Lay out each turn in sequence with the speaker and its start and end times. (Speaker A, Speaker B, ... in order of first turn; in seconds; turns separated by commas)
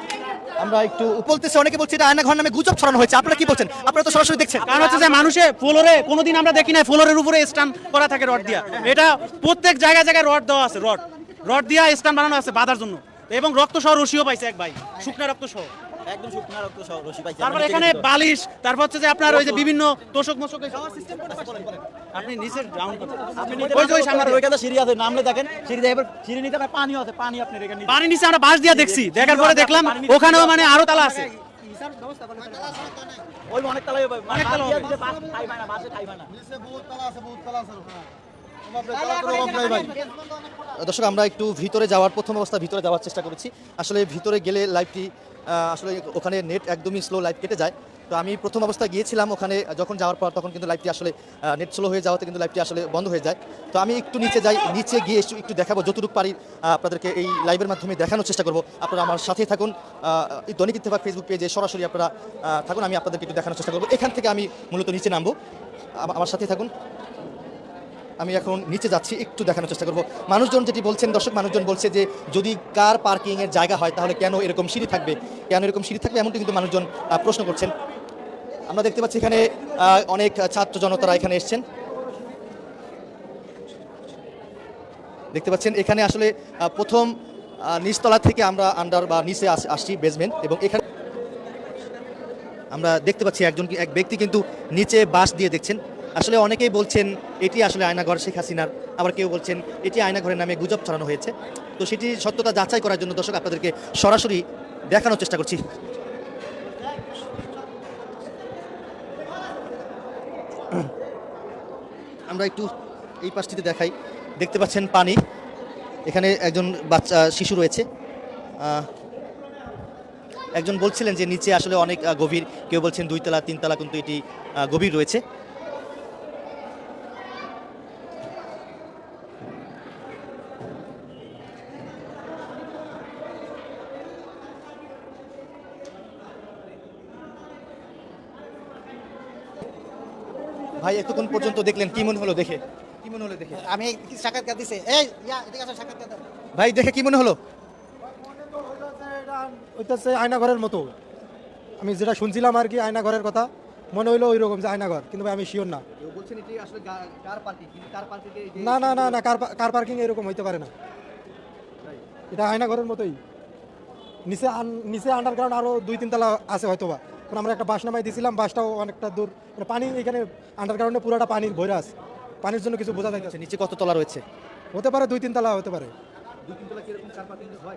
Speaker A: 0.6-4.7, Speaker B: 4.7-15.7, Speaker C: 16.1-18.1, Speaker B: 17.4-21.5, Speaker C: 19.3-19.6, Speaker B: 22.1-24.4, Speaker C: 23.0-28.0, Speaker B: 27.9-31.3, Speaker C: 28.7-31.3, Speaker C: 32.0-32.5, Speaker C: 33.5-36.3, Speaker B: 34.3-34.9, Speaker C: 38.7-39.9, Speaker A: 40.7-65.3, Speaker A: 66.0-66.7, Speaker A: 68.2-77.7, Speaker A: 78.7-81.6, Speaker A: 85.3-87.1, Speaker A: 87.7-90.8, Speaker A: 92.7-105.6, Speaker A: 112.3-112.7, Speaker A: 113.2-115.2, Speaker A: 116.0-117.8, Speaker A: 118.6-118.9, Speaker A: 120.5-125.2, Speaker A: 140.8-143.7, Speaker D: 143.5-146.2, Speaker A: 146.5-147.4, Speaker E: 149.0-150.9, Speaker E: 151.8-155.8, Speaker A: 156.0-159.2, Speaker E: 158.6-160.7, Speaker E: 162.3-163.2, Speaker E: 164.3-171.9, Speaker E: 172.4-173.3, Speaker A: 173.0-174.2, Speaker E: 174.7-175.9, Speaker A: 176.5-177.6